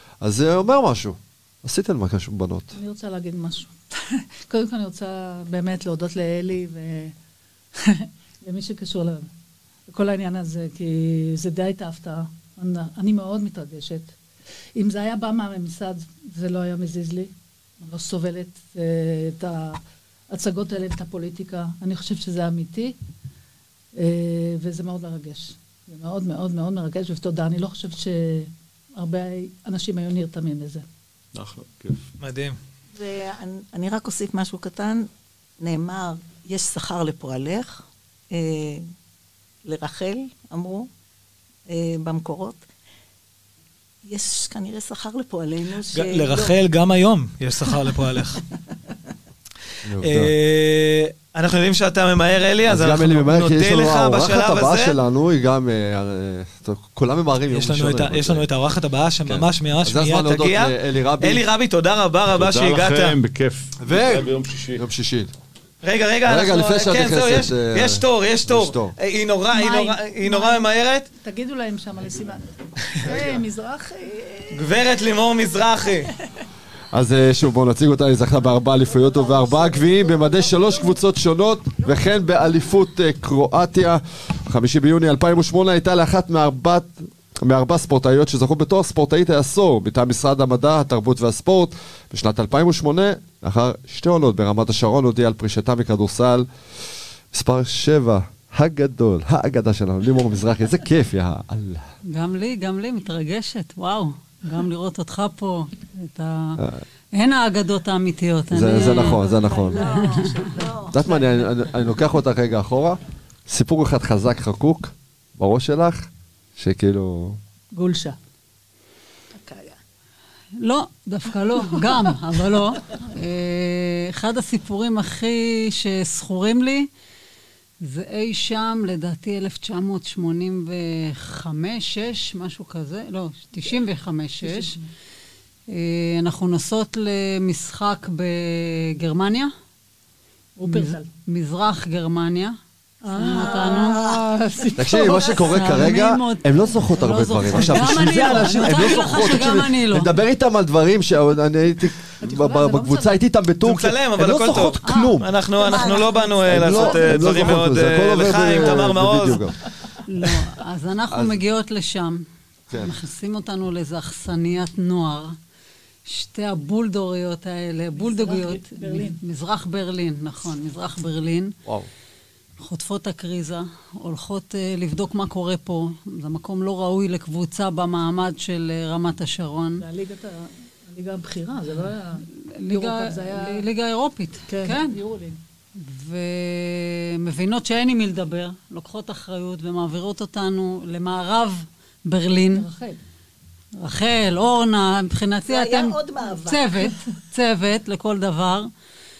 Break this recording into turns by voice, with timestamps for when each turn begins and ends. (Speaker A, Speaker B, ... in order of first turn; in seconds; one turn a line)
Speaker A: 0.2-2.7
Speaker B: 2.7-7.1
Speaker B: 7.8-9.3
Speaker B: 9.9-14.1
Speaker B: 14.8-19.8
Speaker B: 20.3-22.9
Speaker B: 24.0-30.8
Speaker C: 31.3-32.1
Speaker D: 32.2-32.6
Speaker E: 32.9-35.0
Speaker E: 35.6-38.8
Speaker E: 39.6-40.9
Speaker E: 41.7-42.6
Speaker E: 44.1-46.5
Speaker D: 45.9-48.4
Speaker A: 49.8-50.3
Speaker D: 50.0-55.0
Speaker A: 52.7-58.5
Speaker D: 57.5-63.2
Speaker A: 59.3-61.4
Speaker C: 62.3-64.8
Speaker A: 63.8-65.3
Speaker D: 65.8-71.1
Speaker A: 66.2-68.9
Speaker B: 69.5-72.4
Speaker B: 72.9-74.8
Speaker C: 73.0-73.4
Speaker D: 74.5-76.1
Speaker A: 76.9-96.5
Speaker E: 78.8-81.0
Speaker A: 97.3-101.9
Speaker F: 102.1-106.6
Speaker F: 107.1-110.5
Speaker A: 108.5-110.0
Speaker E: 108.7-111.5
Speaker A: 110.9-117.4
Speaker B: 117.7-118.2
Speaker E: 119.3-119.8
Speaker F: 120.6-126.9
Speaker F: 127.8-134.8
Speaker B: 134.4-134.8
Speaker F: 135.7-139.5
Speaker B: 140.6-141.1
Speaker F: 140.6-142.5
Speaker B: 143.0-145.7
Speaker F: 143.1-144.1
Speaker E: 143.2-143.9
Speaker A: 144.8-155.3
Speaker F: 144.9-150.1
Speaker B: 147.4-148.7
Speaker B: 152.2-153.1
Speaker D: 153.6-159.4
Speaker B: 154.8-155.1
Speaker E: 155.6-157.6
Speaker A: 156.5-159.5
Speaker F: 160.1-165.3
Speaker A: 161.1-161.4
Speaker A: 162.7-162.9
Speaker F: 166.1-171.5
Speaker B: 168.0-169.2
Speaker F: 172.6-179.8
Speaker B: 179.8-183.6
Speaker F: 182.4-185.0
Speaker B: 184.5-185.4
Speaker F: 185.8-192.7
Speaker B: 192.5-193.0
Speaker F: 193.8-198.7
Speaker E: 195.4-196.9